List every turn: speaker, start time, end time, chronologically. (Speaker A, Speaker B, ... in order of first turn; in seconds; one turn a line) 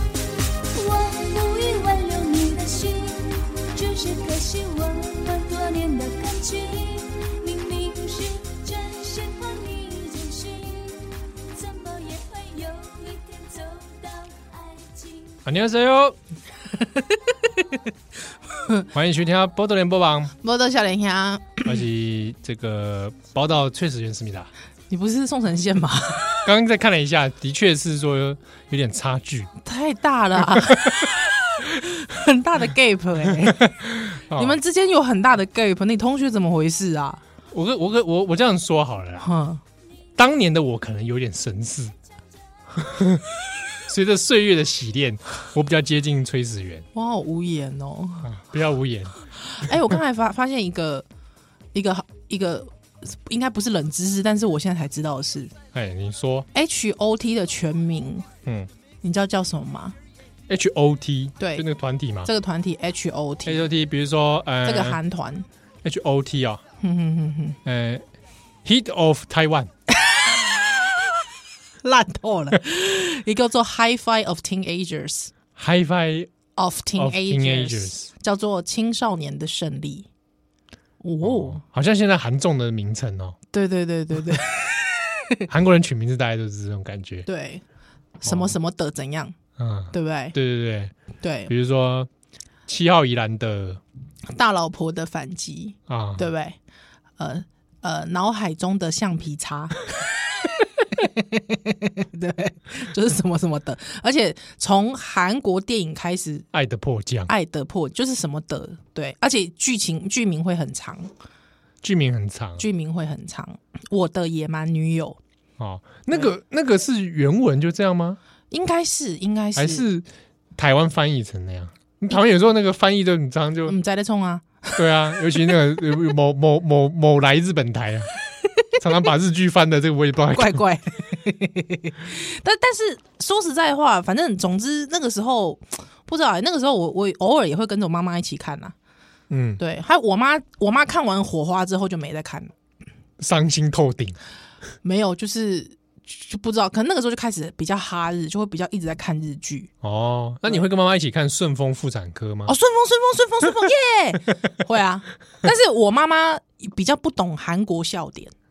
Speaker A: 0.7-15.4
Speaker B: 15.4-16.2
Speaker C: 16.8-17.8
Speaker C: 18.6-18.9
Speaker B: 18.9-20.3
Speaker C: 20.4-21.8
Speaker B: 21.6-24.5
Speaker C: 24.9-26.5
Speaker B: 26.4-29.5
Speaker C: 29.6-33.6
Speaker B: 30.6-31.1
Speaker B: 33.4-34.6
Speaker C: 34.3-37.2
Speaker B: 37.5-39.3
Speaker C: 39.2-39.6
Speaker B: 40.2-41.9
Speaker B: 42.8-43.2
Speaker B: 43.9-46.9
Speaker C: 46.9-48.3
Speaker B: 48.2-49.9
Speaker C: 49.4-51.1
Speaker C: 51.7-55.5
Speaker B: 55.7-56.5
Speaker C: 56.5-58.3
Speaker C: 59.0-60.0
Speaker B: 60.5-62.3
Speaker C: 61.4-61.6
Speaker C: 62.2-63.6
Speaker B: 63.5-65.0
Speaker C: 64.6-65.5
Speaker B: 65.8-66.6
Speaker C: 66.8-67.6
Speaker B: 67.7-68.0
Speaker B: 68.7-69.7
Speaker C: 70.1-70.3
Speaker C: 71.8-75.3
Speaker B: 75.6-76.3
Speaker C: 76.6-80.1
Speaker B: 77.0-78.1
Speaker C: 81.0-81.6
Speaker B: 81.2-83.4
Speaker C: 83.5-85.4
Speaker B: 85.5-87.3
Speaker C: 87.3-87.6
Speaker C: 88.2-89.4
Speaker B: 88.2-88.6
Speaker B: 89.6-90.9
Speaker C: 89.9-90.4
Speaker C: 91.2-91.5
Speaker B: 91.5-92.1
Speaker B: 92.7-93.8
Speaker C: 94.3-96.6
Speaker B: 95.9-96.2
Speaker C: 97.2-100.0
Speaker C: 100.9-106.5
Speaker B: 106.5-107.3
Speaker C: 107.3-111.1
Speaker B: 111.8-112.6
Speaker C: 112.6-115.2
Speaker B: 115.6-118.2
Speaker C: 118.5-119.8
Speaker B: 119.6-123.8
Speaker C: 123.7-125.6
Speaker B: 124.8-128.1
Speaker B: 128.8-130.6
Speaker C: 130.3-138.8
Speaker B: 139.3-139.6
Speaker C: 139.6-142.5
Speaker B: 143.2-144.2
Speaker C: 144.8-149.7
Speaker B: 149.8-152.5
Speaker C: 152.5-158.3